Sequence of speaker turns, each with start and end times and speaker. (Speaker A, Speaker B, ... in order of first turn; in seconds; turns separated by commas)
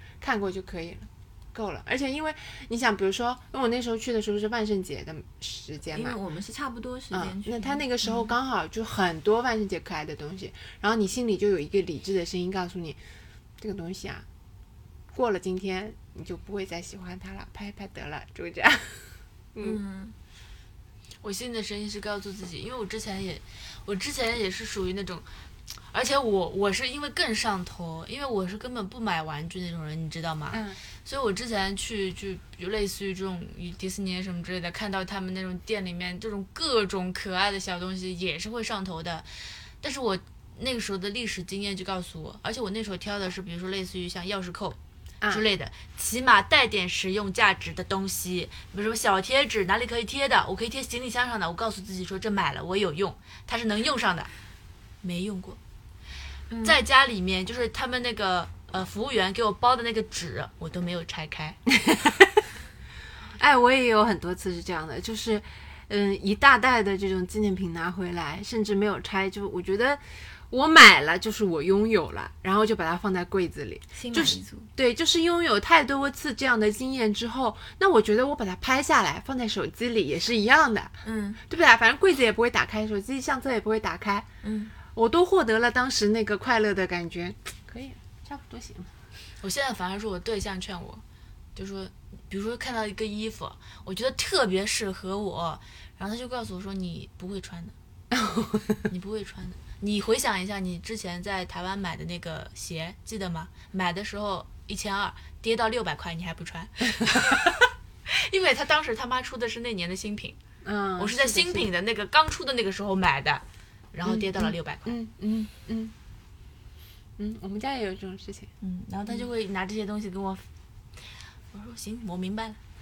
Speaker A: 0.2-6.2, Speaker B: 5.9-8.3, Speaker A: 7.1-13.0, Speaker A: 13.6-14.2, Speaker A: 15.1-19.8, Speaker B: 19.6-20.1, Speaker C: 21.2-25.3, Speaker C: 25.9-39.3, Speaker A: 30.5-30.8, Speaker C: 39.8-44.8, Speaker C: 45.3-54.3, Speaker C: 55.0-55.6, Speaker B: 56.5-56.8, Speaker C: 56.6-61.6, Speaker A: 63.4-84.3, Speaker B: 73.9-74.7, Speaker B: 81.0-81.4, Speaker B: 84.4-84.7, Speaker A: 84.9-88.9, Speaker C: 89.4-91.0, Speaker C: 91.5-97.7, Speaker A: 98.1-98.8, Speaker C: 98.9-110.4, Speaker A: 110.6-111.7, Speaker C: 111.0-115.0, Speaker A: 114.0-115.9, Speaker A: 117.2-118.5, Speaker C: 118.6-120.4, Speaker C: 121.5-122.6